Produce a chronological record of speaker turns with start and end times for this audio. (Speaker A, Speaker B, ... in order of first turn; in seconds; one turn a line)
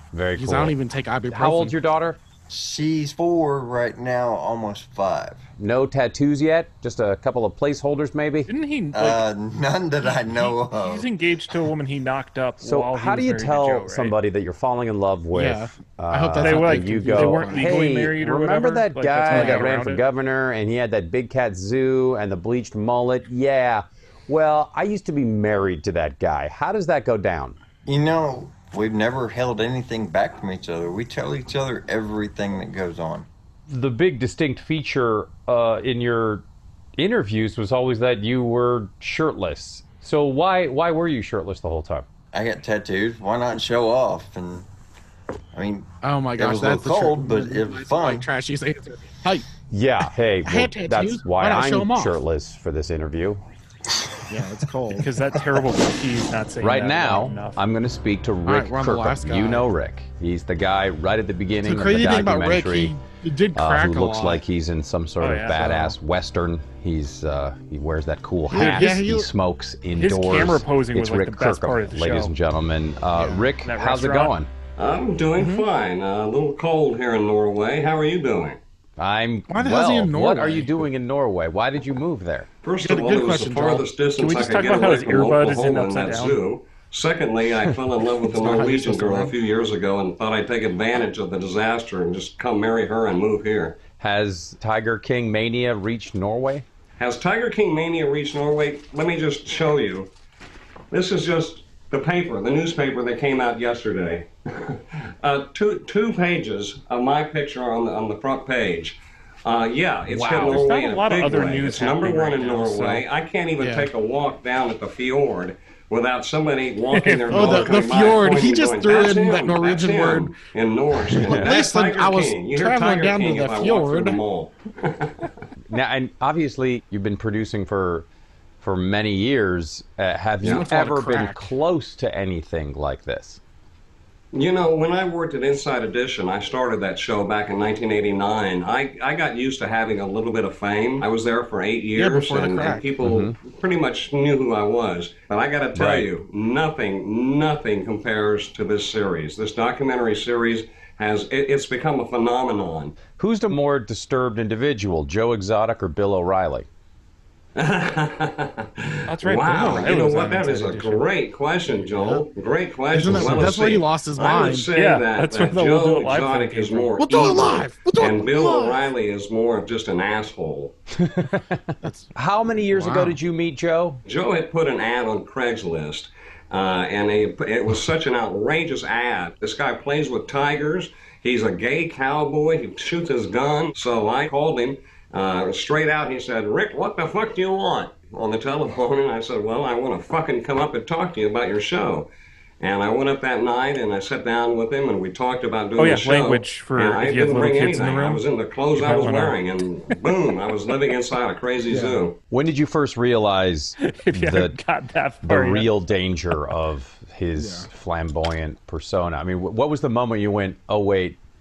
Speaker A: 0.1-0.8
Speaker B: 0.4-1.8
Speaker A: 1.3-2.2
Speaker C: 2.5-5.4
Speaker A: 5.6-8.5
Speaker D: 8.5-9.2
Speaker C: 8.9-11.1
Speaker D: 10.3-14.2
Speaker A: 12.6-27.6
Speaker B: 15.3-17.9
Speaker D: 16.4-20.0
Speaker B: 19.3-19.7
Speaker C: 27.9-33.3
Speaker A: 33.7-36.5
Speaker A: 37.0-42.1
Speaker C: 42.3-44.7
Speaker C: 45.5-48.3
Speaker B: 46.0-49.5
Speaker A: 49.7-53.4
Speaker B: 50.4-52.2
Speaker B: 54.3-55.2
Speaker D: 55.0-57.6
Speaker A: 56.6-63.0
Speaker B: 58.5-59.7
Speaker B: 61.6-64.4
Speaker A: 63.5-74.5
Speaker D: 65.2-66.0
Speaker B: 68.5-69.3
Speaker D: 68.5-68.9
Speaker D: 70.0-72.3
Speaker B: 73.2-73.5
Speaker D: 73.7-74.3
Speaker E: 74.8-78.6
Speaker B: 75.4-75.7
Speaker A: 79.0-82.5
Speaker B: 79.5-80.9
Speaker E: 82.6-93.9
Speaker B: 82.8-83.9
Speaker D: 84.2-86.4
Speaker B: 88.3-89.3
Speaker A: 93.8-96.7
Speaker E: 97.0-100.1
Speaker E: 100.9-125.3
Speaker B: 110.1-110.6
Speaker A: 110.2-110.6
Speaker D: 110.3-113.1
Speaker B: 113.6-113.9
Speaker D: 116.9-117.7
Speaker B: 117.3-120.4
Speaker B: 121.0-124.2
Speaker A: 121.3-121.5
Speaker A: 125.7-128.1
Speaker A: 128.6-133.4
Speaker E: 130.4-130.7
Speaker B: 130.4-131.6
Speaker E: 134.3-153.0
Speaker B: 141.9-142.9
Speaker A: 143.0-143.4
Speaker A: 145.7-146.1
Speaker A: 153.1-156.7
Speaker E: 157.6-170.8
Speaker D: 159.1-161.1
Speaker B: 159.4-160.4
Speaker B: 161.7-162.2
Speaker B: 162.9-164.7
Speaker D: 164.8-167.4
Speaker B: 167.0-168.8
Speaker A: 171.0-171.6
Speaker B: 171.8-172.1
Speaker A: 172.2-174.0
Speaker B: 172.7-173.2
Speaker E: 174.1-192.1
Speaker E: 192.6-202.2
Speaker D: 195.8-199.4
Speaker B: 201.7-202.0
Speaker A: 202.3-204.6
Speaker D: 203.8-205.7
Speaker A: 205.2-211.2
Speaker B: 207.3-207.7